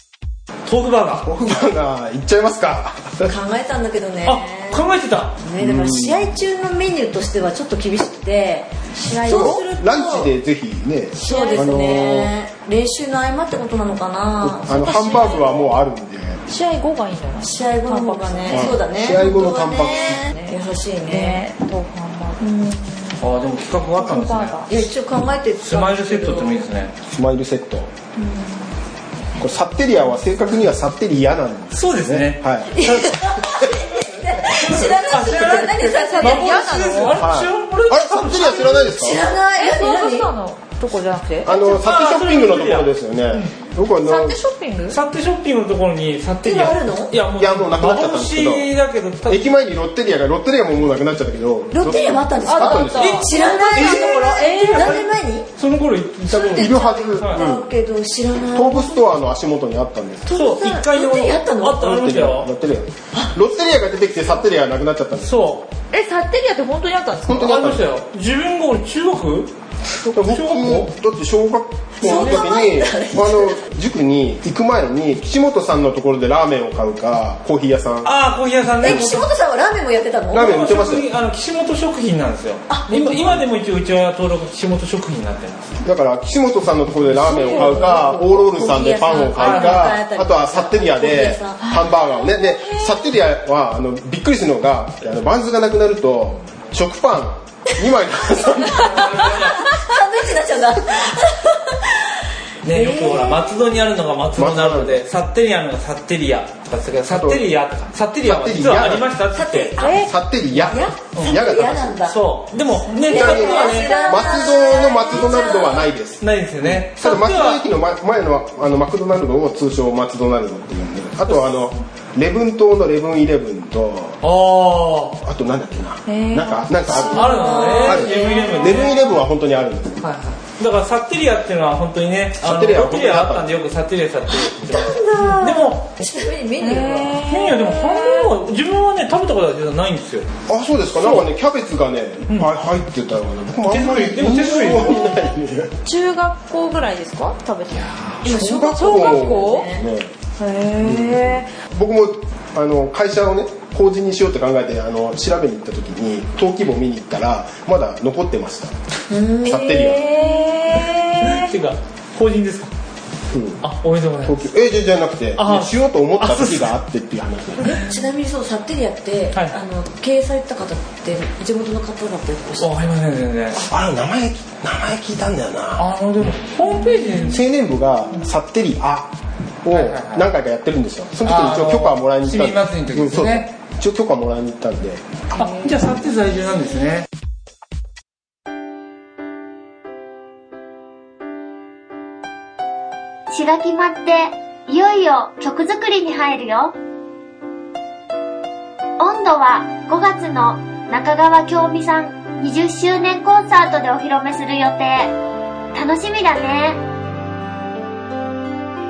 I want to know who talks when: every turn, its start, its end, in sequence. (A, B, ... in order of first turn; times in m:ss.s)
0:00.6-0:01.3 A
0:01.2-0:03.3 B
0:03.2-0:04.8 C
0:04.2-0:05.3 A
0:05.4-0:10.3 C
0:05.6-0:06.3 B
0:08.9-0:09.7 D
0:09.3-0:12.3 B
0:11.2-0:14.8 C
0:11.2-0:11.8 D
0:14.4-0:16.4 B
0:14.7-0:15.7 D
0:16.5-0:19.4 D
0:17.4-0:21.4 C
0:18.5-0:20.2 B
0:20.1-0:23.3 D
0:23.2-0:24.9 A
0:24.0-0:24.7 D
0:24.7-0:26.6 C
0:25.6-0:26.9 A
0:27.1-0:27.9 B
0:28.2-0:28.7 D
0:29.4-0:33.0 B
0:31.7-0:32.4 A
0:32.8-0:37.0 C
0:34.5-0:38.7 A
0:35.6-0:37.2 D
0:37.2-0:39.2 B
0:39.0-0:40.3 C
0:39.4-0:41.7 D
0:41.4-0:44.4 B
0:41.7-0:43.5 A
0:44.0-0:45.0 D
0:44.9-0:49.4 A
0:46.4-0:47.2 C
0:47.4-0:48.7 B
0:49.3-0:53.2 B
0:51.7-0:55.5 C
0:52.4-0:53.3 D
0:53.0-0:57.4 A
0:54.3-0:55.0 D
0:56.3-0:57.6 B
0:57.2-0:59.1 C
0:58.5-1:00.3 B
1:00.3-1:01.9 C
1:00.3-1:02.5 A
1:01.8-1:05.5 B
1:05.2-1:05.7 A
1:05.9-1:07.4 D
1:07.3-1:07.8 B
1:07.4-1:09.5 A
1:10.1-1:10.9 A
1:10.1-1:18.1 B
1:12.0-1:13.6 C
1:18.0-1:19.3 A
1:18.8-1:20.6 C
1:18.8-1:19.2 B
1:20.3-1:21.1 B
1:20.3-1:25.8 A
1:22.7-1:23.4 C
1:25.8-1:39.3 B
1:27.2-1:31.8 C
1:29.4-1:29.9 A
1:32.3-1:32.7 D
1:38.6-1:39.8 A
1:38.8-1:43.4 C
1:42.6-1:49.8 A
1:44.4-1:45.0 B
1:47.1-1:47.4 B
1:48.2-1:49.1 B
1:49.3-1:52.2 C
1:49.8-1:52.1 B
1:51.1-1:51.4 A
1:52.1-1:54.0 A
1:53.0-1:55.9 C
1:53.0-2:04.2 B
1:53.8-1:55.0 D
1:56.2-1:57.6 A
2:04.2-2:05.2 A
2:05.2-2:10.0 B
2:06.1-2:08.6 D
2:06.9-2:09.1 A
2:07.3-2:08.0 C
2:10.0-2:15.9 A
2:12.4-2:13.5 B
2:14.3-2:17.2 C
2:16.6-2:18.3 D
2:17.3-2:20.3 A
2:20.5-2:25.7 B
2:23.7-2:25.1 A
2:25.8-2:27.9 D
2:27.7-2:28.5 A
2:28.2-2:30.1 B
2:28.2-2:29.8 C
2:28.6-2:29.6 D
2:30.4-2:31.5 D
2:30.8-2:38.7 B
2:39.1-2:39.8 C
2:39.4-2:40.1 B
2:39.7-2:41.5 D
2:41.2-2:42.7 A
2:43.3-2:43.6 B
2:43.6-2:44.4 A
2:44.2-2:47.8 B
2:45.4-2:46.7 A
2:47.6-2:52.7 C
2:52.6-2:53.7 A
2:53.5-2:55.8 B
2:55.8-2:57.4 A
2:57.3-2:59.1 B
2:59.6-3:05.1 B
2:59.7-3:00.3 A
3:01.2-3:03.5 A
3:05.3-3:07.1 A
3:13.3-3:16.8 E
3:19.0-3:25.1 E
3:25.7-3:26.8 E